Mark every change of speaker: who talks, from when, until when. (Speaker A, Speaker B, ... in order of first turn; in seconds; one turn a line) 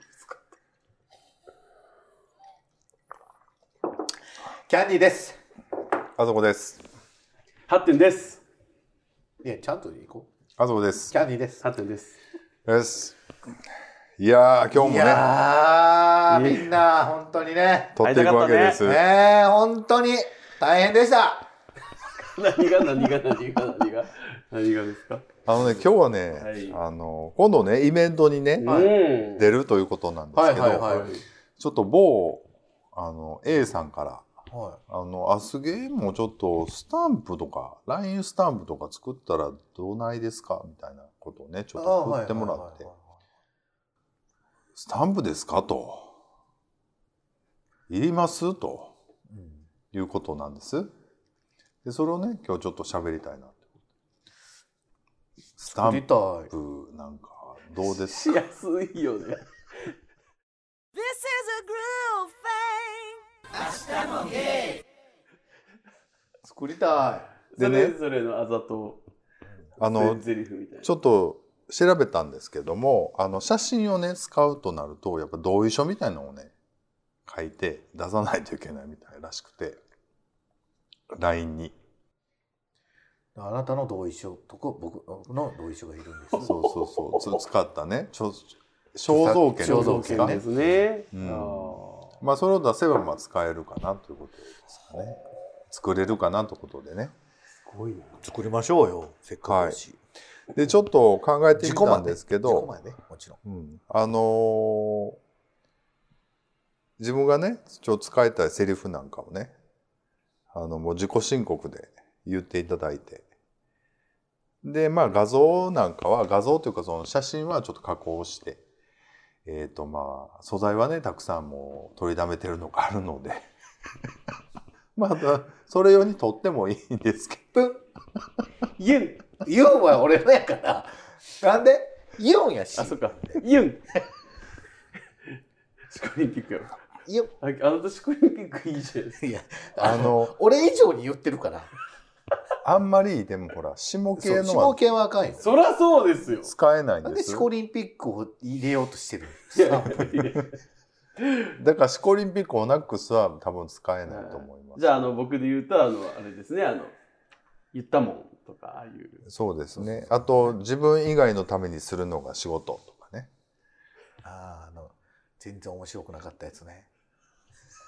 Speaker A: 4.7-5.4
Speaker B: 6.2-6.8
Speaker C: 7.7-8.4
Speaker A: 9.4-10.3
Speaker B: 10.6-11.1
Speaker A: 11.1-11.6
Speaker C: 11.6-12.2
Speaker B: 12.7-13.2
Speaker B: 14.2-15.2
Speaker A: 14.7-18.0
Speaker C: 16.3-16.8
Speaker B: 18.0-19.1
Speaker C: 18.0-18.8
Speaker A: 18.8-21.5
Speaker C: 22.2-26.8
Speaker B: 25.4-28.9
Speaker C: 28.6-29.5
Speaker A: 28.6-28.9
Speaker B: 29.4-34.3
Speaker A: 30.3-31.2
Speaker C: 30.9-31.2
Speaker A: 34.5-34.8
Speaker B: 34.9-42.9
Speaker A: 41.8-43.1
Speaker B: 44.8-46.1
Speaker B: 47.9-48.9
Speaker A: 49.3-49.7
Speaker B: 49.9-50.9
Speaker B: 51.8-53.6
Speaker B: 55.6-58.4
Speaker A: 55.7-56.5
Speaker C: 57.9-60.0
Speaker D: 61.0-64.8
Speaker A: 66.4-67.3
Speaker C: 67.5-69.0
Speaker B: 67.6-68.0
Speaker B: 69.8-70.2
Speaker C: 69.8-70.9
Speaker B: 70.8-76.5
Speaker B: 77.3-79.8
Speaker B: 81.1-81.8
Speaker A: 83.4-86.5
Speaker B: 86.4-90.4
Speaker C: 86.4-87.4
Speaker A: 89.1-90.5
Speaker C: 89.6-92.2
Speaker B: 91.1-95.2
Speaker B: 95.7-97.1
Speaker C: 97.6-98.2
Speaker A: 98.2-100.0
Speaker B: 99.5-99.8
Speaker B: 100.5-102.7
Speaker A: 101.6-103.4
Speaker B: 103.5-105.2
Speaker B: 107.0-109.5
Speaker B: 110.5-113.3
Speaker B: 114.6-118.6
Speaker B: 119.5-123.5
Speaker B: 125.0-127.7
Speaker C: 128.8-129.2
Speaker A: 129.4-133.4
Speaker C: 132.8-134.0
Speaker C: 135.9-136.8
Speaker A: 137.1-137.3
Speaker C: 137.4-139.2
Speaker A: 139.2-141.7
Speaker B: 139.8-140.3
Speaker B: 142.6-144.8
Speaker A: 144.2-145.5
Speaker C: 145.4-146.5
Speaker B: 146.4-147.5
Speaker A: 147.1-150.4
Speaker C: 149.5-150.5
Speaker C: 151.2-151.5
Speaker B: 151.6-155.0
Speaker C: 154.1-156.9
Speaker C: 157.7-159.2
Speaker B: 159.3-163.3
Speaker A: 164.2-166.9